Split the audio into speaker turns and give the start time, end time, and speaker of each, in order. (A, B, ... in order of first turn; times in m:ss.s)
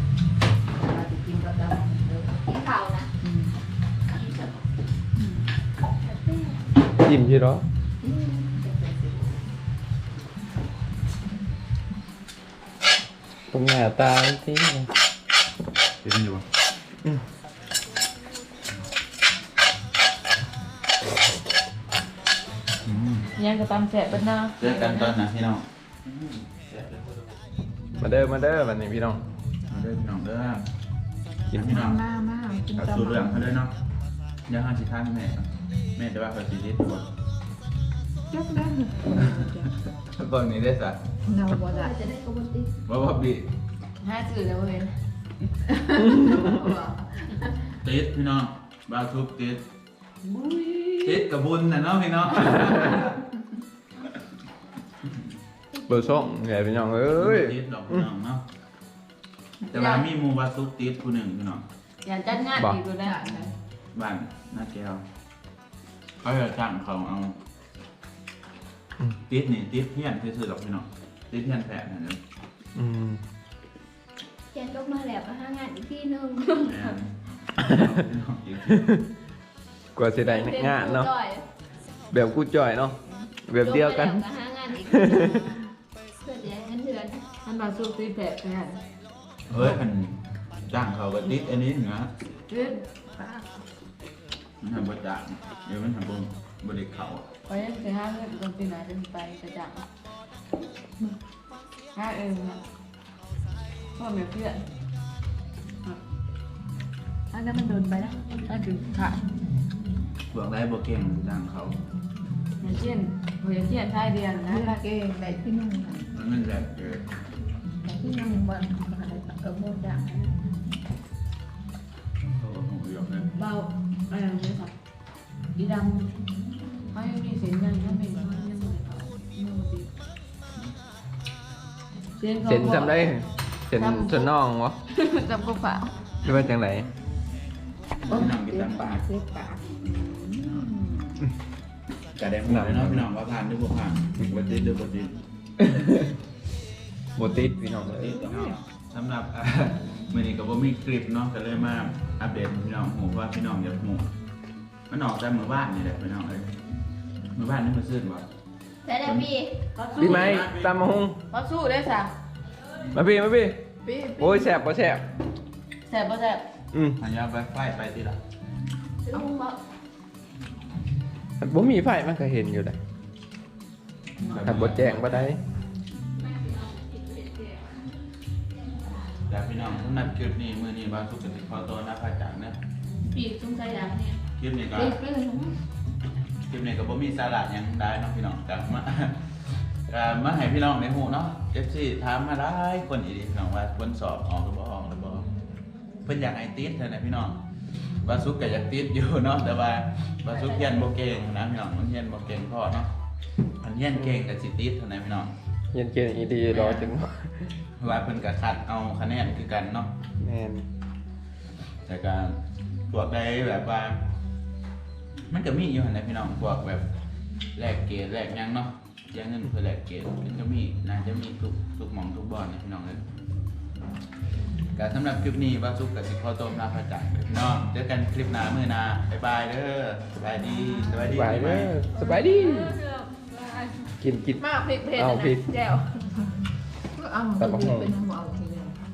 0:00.8-0:02.5 A
0:02.5-0:03.1 B
0:03.2-0:03.5 A
0:04.1-0:04.5 B
0:07.0-0:07.6 C
0:08.0-0:09.4 A
0:13.5-0:14.9 C
0:16.0-0:16.4 D
0:22.8-0:23.3 D
0:23.4-0:25.2 E
0:24.6-0:27.2 D
0:28.0-0:29.2 C
0:29.7-0:30.6 D
0:31.5-0:31.8 C
0:31.5-0:32.0 D
0:31.6-0:33.5 A
0:32.8-0:33.7 D
0:34.5-0:37.1 D
0:38.3-0:39.7 A
0:39.2-0:39.4 D
0:40.0-0:41.0 D
0:41.3-0:42.0 A
0:41.6-0:42.7 B
0:42.8-0:43.4 D
0:44.0-0:44.9 E
0:45.7-0:47.1 A
0:47.8-0:49.6 D
0:50.3-0:51.1 E
0:51.0-0:53.1 D
0:55.9-0:58.0 C
0:57.1-0:58.4 D
0:59.7-1:01.6 D
0:59.7-1:00.0 E
1:02.0-1:03.2 E
1:03.0-1:03.5 A
1:03.9-1:05.0 D
1:06.2-1:07.4 D
1:09.2-1:12.2 D
1:12.7-1:13.2 C
1:14.6-1:16.3 B
1:16.4-1:16.9 E
1:16.6-1:18.8 D
1:18.7-1:19.0 C
1:19.9-1:21.1 C
1:20.2-1:21.4 B
1:22.1-1:24.2 C
1:23.6-1:25.4 B
1:24.8-1:25.5 C
1:26.2-1:27.2 B
1:27.4-1:28.8 E
1:29.5-1:32.1 D
1:32.5-1:32.8 E
1:33.2-1:33.5 A
1:34.6-1:37.3 D
1:37.5-1:39.8 E
1:41.9-1:42.6 E
1:44.0-1:44.6 E
1:47.3-1:49.2 A
1:48.3-1:48.8 E
1:50.3-1:51.8 D
1:52.6-1:54.7 E
1:54.3-1:56.1 A
1:56.1-1:57.0 D
1:57.8-2:00.4 A
2:02.3-2:03.2 D
2:03.3-2:04.7 E
2:05.6-2:06.1 E
2:06.9-2:09.9 E
2:12.2-2:13.1 E
2:12.4-2:14.8 C
2:13.8-2:14.3 E
2:14.9-2:15.9 E
2:16.2-2:16.9 C
2:18.0-2:19.0 D
2:18.1-2:21.2 A
2:22.1-2:25.2 D
2:22.4-2:23.1 C
2:25.6-2:26.2 C
2:27.1-2:28.3 C
2:27.9-2:34.0 D
2:34.9-2:36.5 D
2:37.3-2:38.2 D
2:39.0-2:39.3 D
2:39.7-2:40.4 E
2:39.9-2:40.7 D
2:40.0-2:41.2 C
2:41.3-2:42.1 E
2:42.9-2:43.6 C
2:43.8-2:44.5 A
2:44.2-2:45.0 C
2:45.9-2:46.4 E
2:46.7-2:47.0 C
2:47.0-2:48.2 D
2:51.4-2:52.8 C
2:54.2-2:55.3 D
2:54.4-2:55.4 C
2:56.2-2:57.8 B
2:59.3-3:02.6 D
3:03.0-3:04.2 E
3:04.4-3:05.0 D
3:04.7-3:05.5 E
3:06.5-3:09.2 D
3:09.9-3:15.3 D
3:16.0-3:17.4 D
3:18.0-3:22.9 D
3:23.6-3:25.3 D
3:25.7-3:27.6 C
3:26.5-3:26.9 D
3:27.8-3:29.9 D
3:30.2-3:30.6 C
3:31.8-3:32.4 D
3:32.9-3:34.0 D
3:35.3-3:36.8 D
3:37.6-3:43.0 D
3:44.7-3:51.8 D
3:51.0-3:52.8 C
3:52.0-3:53.1 E
3:54.0-3:55.5 C
3:54.6-3:55.7 B
3:56.9-3:58.8 A
3:57.4-3:57.9 C